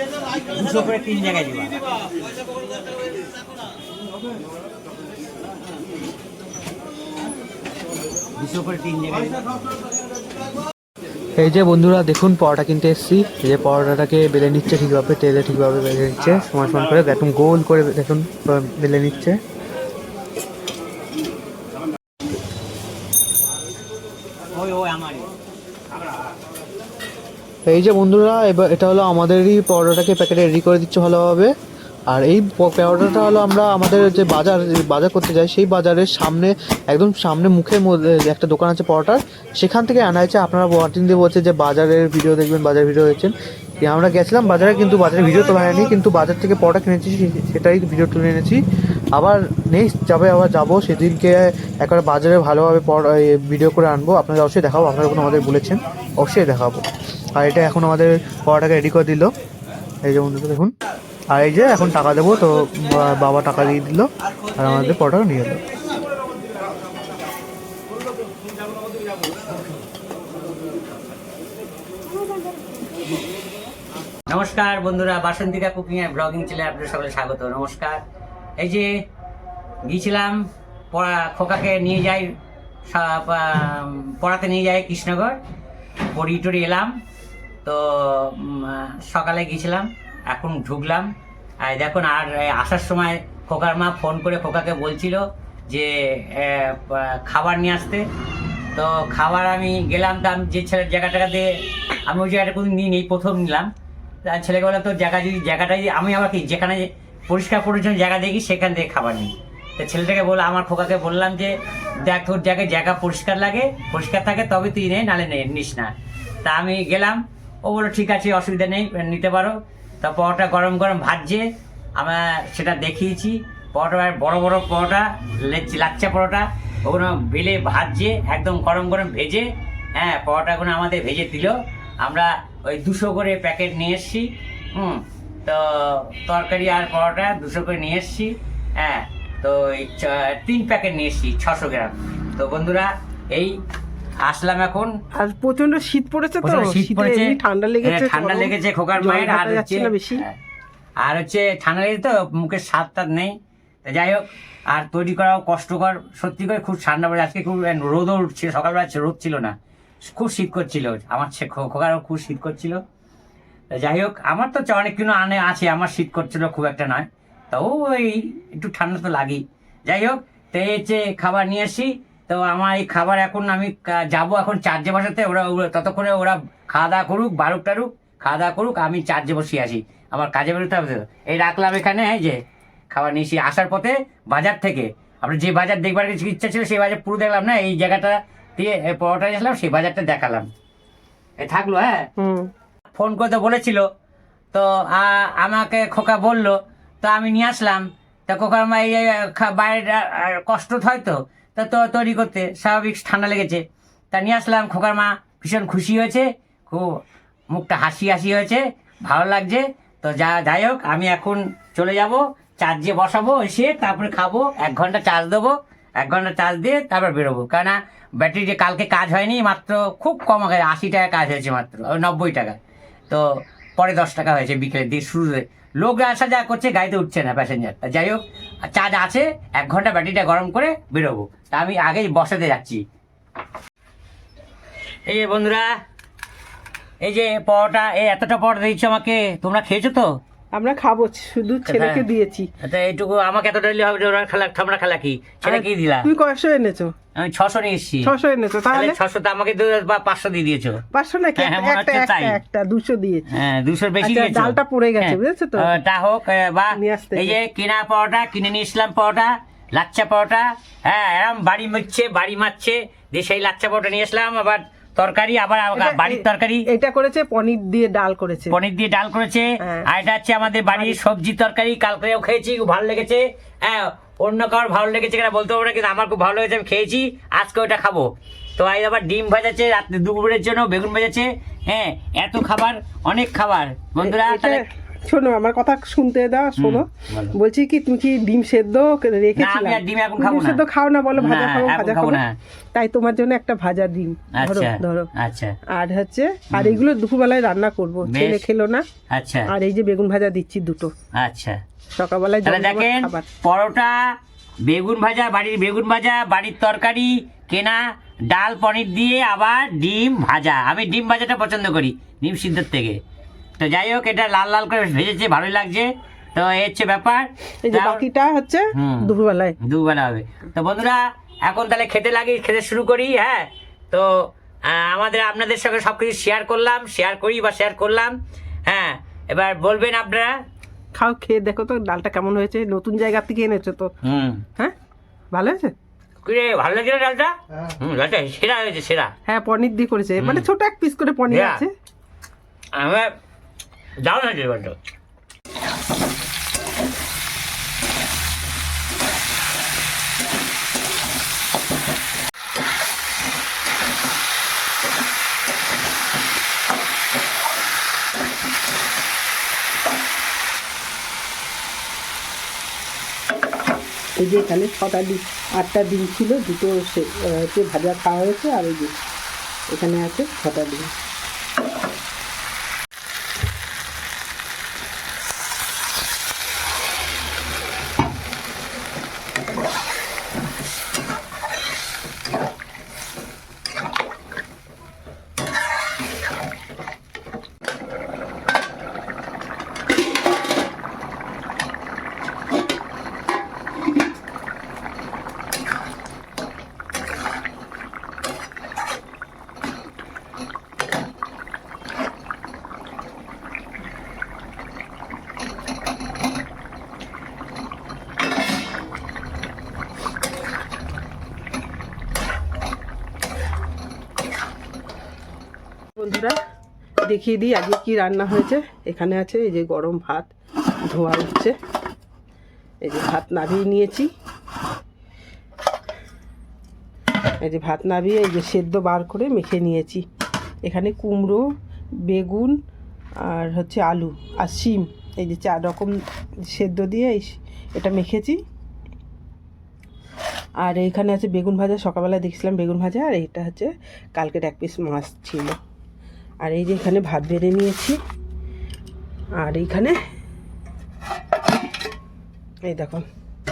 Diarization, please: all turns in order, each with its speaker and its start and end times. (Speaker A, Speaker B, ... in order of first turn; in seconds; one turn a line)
Speaker A: 0.5-1.8
Speaker A: 8.4-9.4
Speaker B: 11.4-19.4
Speaker A: 16.2-16.4
Speaker A: 24.5-25.3
Speaker B: 27.7-31.5
Speaker B: 32.1-48.6
Speaker B: 49.1-56.8
Speaker B: 57.4-59.3
Speaker B: 60.0-60.7
Speaker B: 61.3-65.6
Speaker A: 74.3-78.0
Speaker A: 78.6-78.9
Speaker A: 79.8-80.4
Speaker A: 80.9-82.3
Speaker A: 82.9-85.4
Speaker A: 86.1-86.9
Speaker A: 87.7-91.1
Speaker A: 91.6-98.0
Speaker A: 98.8-101.5
Speaker A: 102.1-103.7
Speaker A: 104.2-111.5
Speaker A: 112.0-115.9
Speaker A: 116.4-121.4
Speaker A: 122.0-143.6
Speaker A: 144.2-144.9
Speaker C: 145.2-150.2
Speaker A: 146.4-150.3
Speaker A: 151.0-159.6
Speaker A: 160.1-162.8
Speaker A: 163.8-182.4
Speaker A: 182.9-190.4
Speaker A: 191.4-192.1
Speaker C: 192.2-192.5
Speaker A: 192.9-193.8
Speaker A: 194.5-206.8
Speaker A: 207.5-222.6
Speaker A: 223.8-232.8
Speaker A: 235.1-235.7
Speaker A: 237.0-240.1
Speaker C: 240.5-242.5
Speaker A: 241.7-242.0
Speaker A: 242.6-246.1
Speaker C: 245.4-246.9
Speaker A: 247.2-248.1
Speaker C: 248.0-249.0
Speaker A: 248.7-250.8
Speaker C: 250.9-253.3
Speaker A: 251.4-252.4
Speaker A: 253.3-266.6
Speaker C: 254.0-255.7
Speaker C: 256.7-257.4
Speaker C: 265.7-268.6
Speaker A: 268.5-284.6
Speaker C: 269.6-269.9
Speaker C: 270.7-271.0
Speaker C: 284.0-292.2
Speaker A: 286.6-287.3
Speaker A: 289.4-292.3
Speaker C: 292.7-295.1
Speaker A: 294.3-295.6
Speaker C: 295.7-298.9
Speaker A: 296.5-296.8
Speaker A: 298.0-298.4
Speaker A: 299.1-299.5
Speaker C: 299.5-300.9
Speaker A: 301.1-301.6
Speaker C: 301.9-303.3
Speaker A: 302.4-304.1
Speaker A: 304.6-313.0
Speaker A: 313.6-318.1
Speaker C: 317.6-319.6
Speaker A: 318.8-319.1
Speaker A: 319.6-324.1
Speaker A: 324.7-328.1
Speaker A: 328.7-330.4
Speaker C: 330.9-333.9
Speaker A: 334.0-334.4
Speaker C: 335.3-335.7
Speaker A: 336.2-339.1
Speaker C: 339.3-341.7
Speaker A: 340.2-340.4
Speaker A: 341.3-341.6
Speaker A: 342.7-343.1
Speaker A: 344.1-344.8
Speaker C: 364.2-368.9
Speaker C: 369.7-370.9
Speaker C: 415.9-416.4
Speaker C: 417.0-420.3
Speaker C: 420.8-421.6
Speaker C: 422.8-424.1
Speaker C: 427.4-430.1
Speaker C: 430.6-431.4
Speaker C: 432.1-432.6
Speaker C: 433.2-438.4
Speaker C: 440.6-445.6
Speaker C: 446.4-448.0
Speaker C: 449.4-449.9
Speaker C: 452.6-453.1